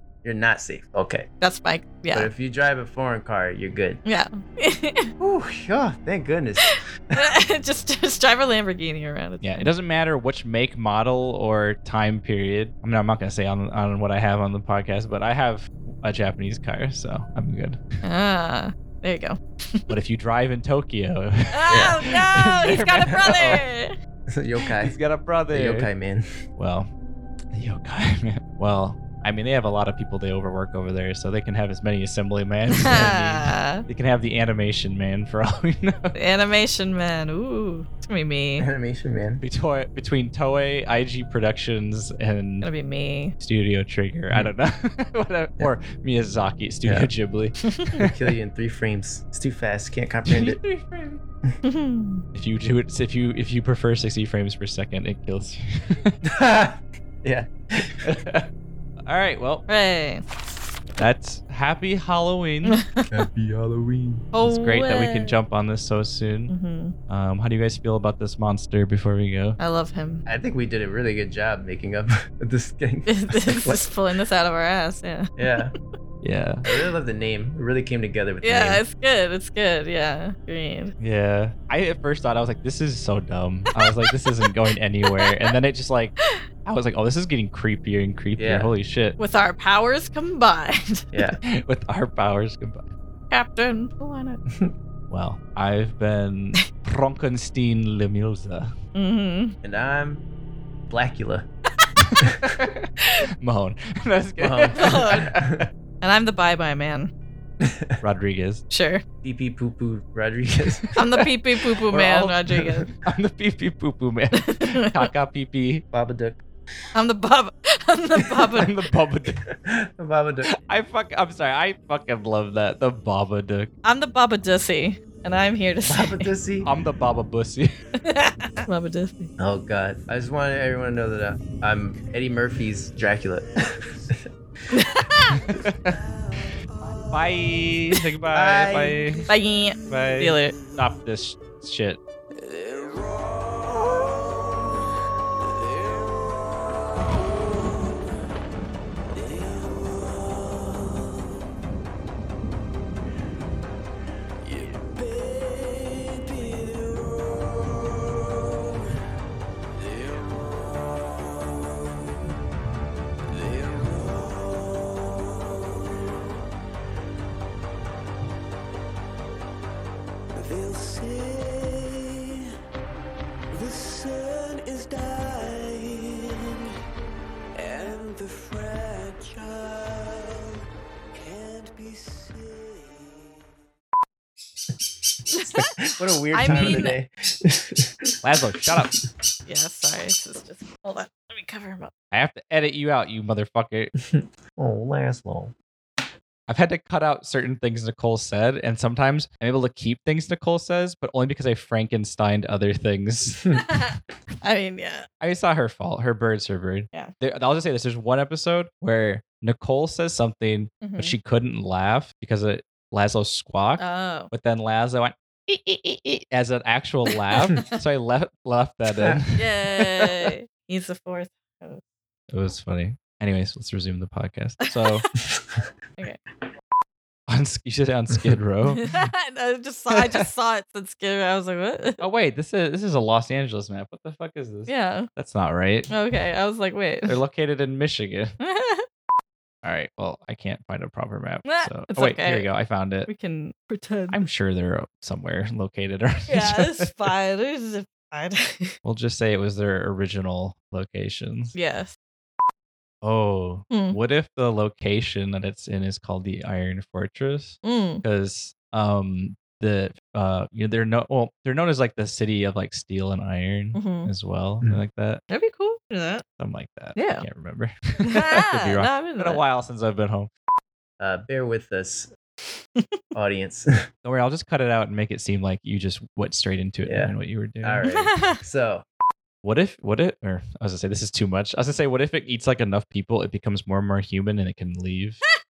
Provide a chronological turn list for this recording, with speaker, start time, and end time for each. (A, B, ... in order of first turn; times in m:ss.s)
0:00.2-0:01.3 A
0:01.4-0:02.3 B
0:02.1-0:04.0 A
0:04.0-0:05.1 B
0:05.2-0:07.3 A
0:06.6-0:09.7 B
0:09.4-0:18.0 C
0:18.0-0:19.9 B
0:19.9-0:23.6 C
0:21.5-0:23.9 B
0:21.7-0:22.0 A
0:23.1-0:23.6 A
0:24.3-0:25.0 A
0:24.8-0:25.9 C
0:25.5-0:26.3 A
0:26.6-0:26.9 C
0:27.5-0:36.2 C
0:32.7-0:33.8 B
0:36.2-0:38.7 B
0:38.6-0:39.4 A
0:39.4-0:42.7 C
0:42.6-0:43.4 B
0:43.4-0:48.2 C
0:46.8-0:47.1 A
0:48.0-0:50.6 A
0:50.3-0:51.2 C
0:51.6-0:52.2 B
0:52.4-0:56.2 C
0:56.2-0:58.2 A
0:58.0-0:58.5 C
0:59.1-0:59.7 C
0:59.7-1:00.2 B
1:01.0-1:02.8 C
1:02.7-1:03.1 B
1:03.1-1:04.3 A
1:04.3-1:05.4 B
1:04.4-1:06.5 C
1:06.5-1:06.9 B
1:07.1-1:09.6 C
1:09.6-1:10.2 B
1:10.3-1:13.9 A
1:13.1-1:15.3 B
1:15.4-1:15.8 A
1:16.2-1:16.6 C
1:16.6-1:18.8 A
1:18.4-1:20.9 B
1:21.0-1:29.2 C
1:25.1-1:25.5 B
1:28.4-1:28.7 A
1:29.2-1:31.1 B
1:31.1-1:31.4 A
1:31.4-1:32.9 C
1:33.3-1:34.4 B
1:35.1-1:38.7 C
1:39.0-1:39.6 B
1:39.6-1:40.2 A
1:40.9-1:41.5 A
1:42.0-1:45.5 C
1:44.4-1:45.7 A
1:44.8-1:45.4 B
1:46.0-1:47.1 B
1:47.6-1:48.0 A
1:48.0-1:48.6 C
1:48.7-1:49.0 B
1:49.2-1:51.0 A
1:51.0-1:52.9 B
1:51.9-1:52.6 A
1:53.0-1:55.8 C
1:54.4-1:55.1 B
1:55.9-1:56.4 A
1:56.9-1:58.7 B
1:58.5-1:59.4 C
1:59.4-2:00.6 A
2:00.5-2:03.7 C
2:03.8-2:06.3 B
2:05.9-2:06.7 A
2:06.6-2:07.8 C
2:08.0-2:09.3 B
2:09.4-2:14.3 A
2:14.7-2:15.4 B
2:15.3-2:16.0 C
2:17.1-2:19.3 C
2:18.3-2:19.3 A
2:19.3-2:20.6 B
2:19.9-2:22.0 C
2:34.6-2:36.7 D
2:50.4-2:52.0 D
2:53.5-2:56.0 D
2:57.6-2:59.8 D
3:01.2-3:02.9 D
3:05.3-3:05.6 B
3:05.4-3:08.7 A
3:06.3-3:07.0 B
3:06.4-3:06.9 C
3:08.2-3:09.0 C
3:09.5-3:11.9 B
3:12.1-3:13.9 C
3:14.0-3:15.5 A
3:16.5-3:23.7 C
3:24.4-3:25.1 B
3:25.2-3:40.3 C
3:30.8-3:31.2 B
3:33.8-3:34.3 B
3:39.4-3:41.8 B
3:42.3-3:45.1 C
3:47.3-3:49.1 C
3:48.8-3:52.0 B
3:49.9-3:50.2 C
3:52.0-3:55.9 C
3:54.7-3:55.1 B
3:55.9-3:57.2 B
3:57.1-3:58.4 C
3:58.4-3:58.9 B
3:59.6-4:03.1 C
4:01.4-4:02.5 B
4:03.1-4:04.2 B
4:04.1-4:06.9 C
4:06.3-4:08.8 B
4:08.8-4:11.6 C
4:11.5-4:12.0 B
4:13.0-4:25.2 C
4:13.7-4:14.0 B
4:17.6-4:18.0 B
4:23.7-4:24.1 B
4:25.3-4:26.2 B
4:26.4-4:30.3 C
4:27.0-4:27.2 B
4:28.0-4:29.4 B
4:31.0-4:32.1 A
4:33.1-4:33.8 A
4:34.0-4:37.9 C
4:36.9-4:38.9 A
4:37.9-4:38.4 B
4:39.4-4:45.2 C